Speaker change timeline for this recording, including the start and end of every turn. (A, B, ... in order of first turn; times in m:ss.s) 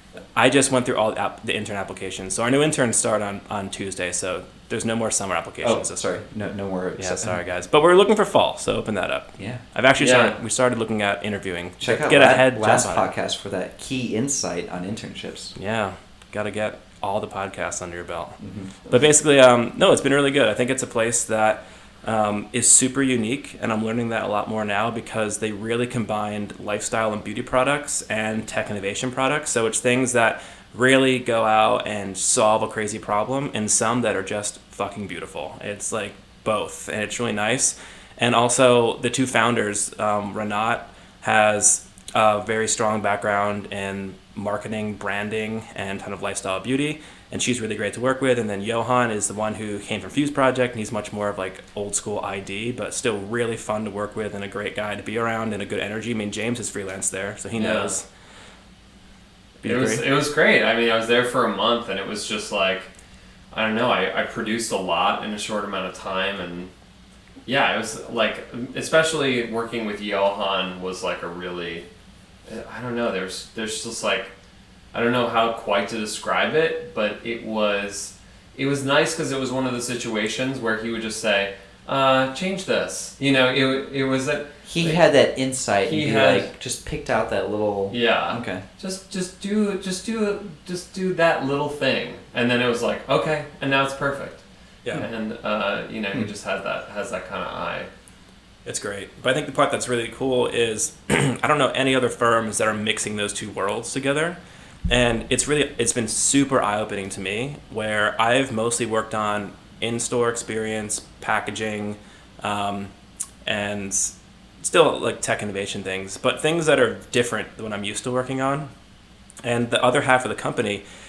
0:00.3-0:06.0 A
0:05.6-0:07.4 B
0:07.0-0:13.1 A
0:10.0-0:10.4 C
0:11.8-0:15.5 B
0:15.6-0:58.0 A
0:18.4-0:18.7 B
0:57.6-0:58.0 C
0:59.6-1:00.0 A
0:59.6-1:02.9 C
1:03.5-1:06.7 C
1:07.4-1:11.8 C
1:12.4-1:14.3 C
1:14.9-1:25.0 C
1:24.7-1:28.6 B
1:25.8-1:26.5 C
1:27.9-1:34.4 C
1:34.9-1:37.9 C
1:38.6-1:44.4 A
1:44.9-1:52.9 A
1:53.4-1:58.7 A
1:59.4-2:00.8 A